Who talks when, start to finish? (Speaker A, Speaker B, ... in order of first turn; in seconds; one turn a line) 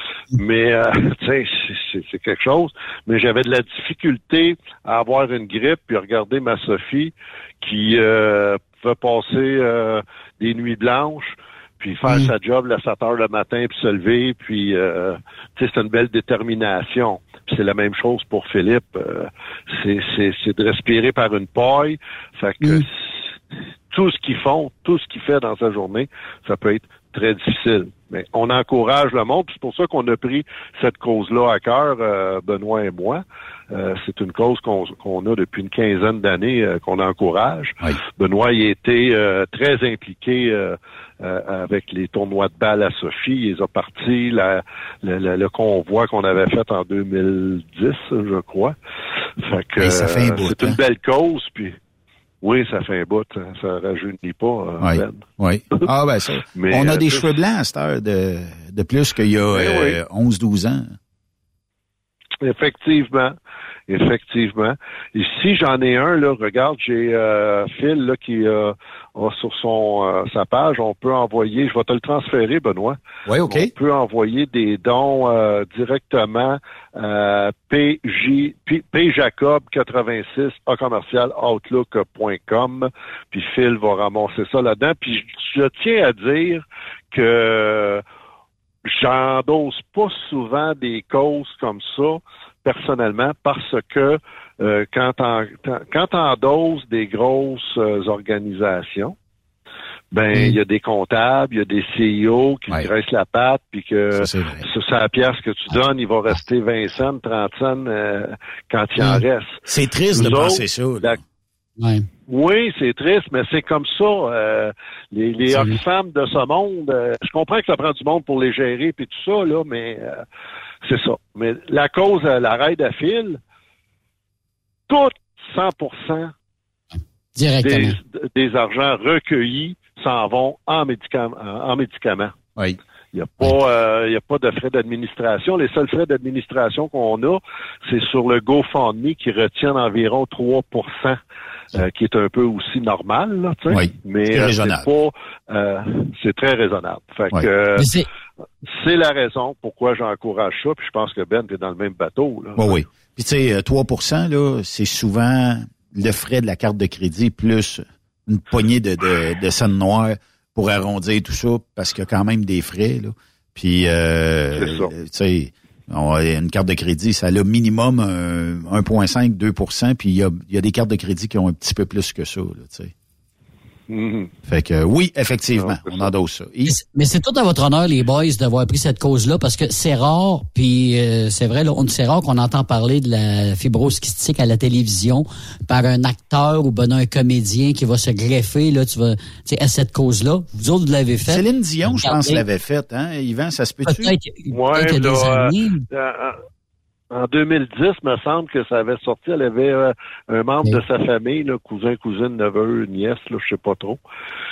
Speaker A: 0.3-22.9
Speaker B: 12.1-12.3
Speaker A: 23.9-48.7
Speaker A: 49.4-51.7
Speaker C: 49.8-50.8
Speaker A: 52.4-55.9
Speaker C: 54.8-61.0
Speaker A: 56.5-57.3
Speaker A: 59.5-60.0
Speaker A: 62.4-63.3
Speaker A: 63.9-88.0
Speaker C: 73.3-73.7
Speaker A: 88.8-99.1
Speaker A: 100.1-111.2
Speaker C: 104.1-104.6
Speaker B: 109.0-109.2
Speaker C: 109.7-111.2
Speaker B: 111.8-112.1
Speaker A: 112.3-120.2
Speaker B: 115.5-115.8
Speaker A: 120.8-123.4
Speaker A: 124.9-126.3
Speaker B: 127.3-128.0
Speaker A: 127.6-132.3
Speaker A: 133.1-141.2
Speaker A: 141.7-147.9
Speaker C: 143.7-144.8
Speaker B: 147.8-148.1
Speaker A: 148.6-152.8
Speaker C: 152.6-172.9
Speaker A: 164.5-164.9
Speaker A: 173.9-174.3
Speaker C: 174.5-176.8
Speaker A: 175.5-176.1
Speaker B: 176.7-192.4
Speaker C: 191.3-194.2
Speaker B: 193.8-195.8
Speaker A: 194.5-196.4
Speaker A: 197.1-204.0